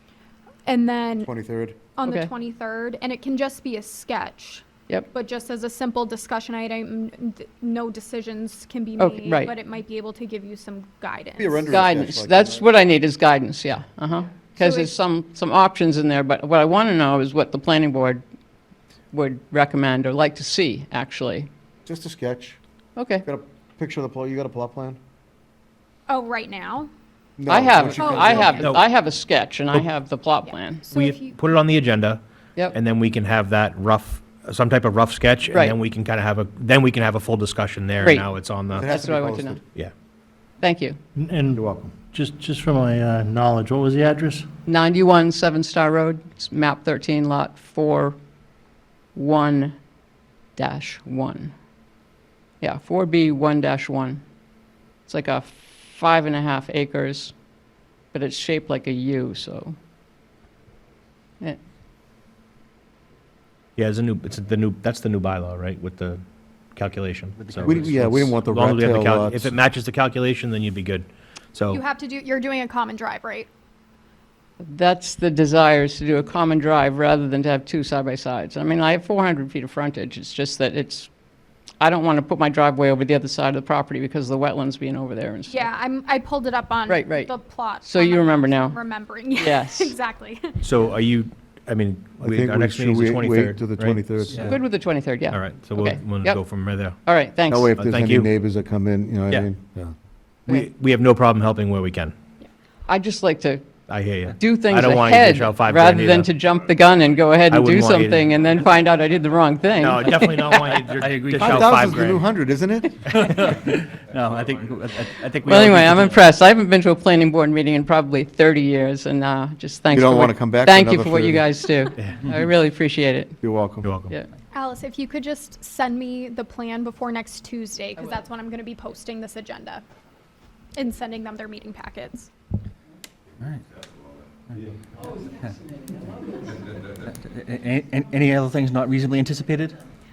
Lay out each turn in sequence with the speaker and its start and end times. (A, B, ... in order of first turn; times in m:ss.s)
0:00.7-0:01.3 A
0:01.2-0:01.8 B
0:02.0-0:11.7 A
0:02.0-0:02.3 C
0:09.0-0:09.5 C
0:11.4-0:12.7 B
0:11.7-0:18.2 C
0:14.6-0:14.9 A
0:19.1-0:21.5 C
0:21.9-0:22.6 B
0:23.0-0:23.3 C
0:23.2-0:25.0 B
0:26.1-0:26.9 A
0:27.4-0:28.7 B
0:27.5-0:30.9 C
0:27.8-0:28.7 A
0:28.5-0:28.8 D
0:30.5-0:31.4 A
0:30.9-0:39.0 D
0:35.5-0:35.8 C
0:38.0-0:39.6 C
0:38.7-0:39.6 B
0:40.6-0:41.0 C
0:41.2-0:44.5 E
0:44.7-0:48.2 C
0:49.2-0:49.8 C
0:50.6-0:51.5 C
0:52.6-0:54.2 C
0:55.1-0:57.3 C
0:58.1-0:59.8 C
1:03.8-1:06.2 D
1:06.8-1:11.8 D
1:07.4-1:08.1 F
1:07.6-1:09.5 B
1:11.7-1:13.5 A
1:14.6-1:21.1 C
1:21.8-1:25.7 C
1:25.5-1:30.6 A
1:26.9-1:28.8 C
1:29.4-1:29.9 C
1:30.6-1:34.5 D
1:32.2-1:34.6 B
1:34.3-1:36.5 C
1:35.3-1:37.0 D
1:37.0-1:37.8 C
1:37.5-1:39.9 B
1:37.8-1:38.3 D
1:40.5-1:42.1 D
1:42.9-1:43.6 C
1:43.9-1:46.3 D
1:44.3-1:50.6 C
1:47.5-1:48.3 D
1:49.8-1:52.3 D
1:50.6-1:51.9 F
1:51.4-1:53.0 B
1:53.2-1:56.3 F
1:55.4-2:03.4 C
1:59.9-2:01.5 B
2:03.4-2:03.9 B
2:03.8-2:04.1 D
2:04.5-2:09.8 A
2:10.8-2:12.3 A
2:17.1-2:19.8 F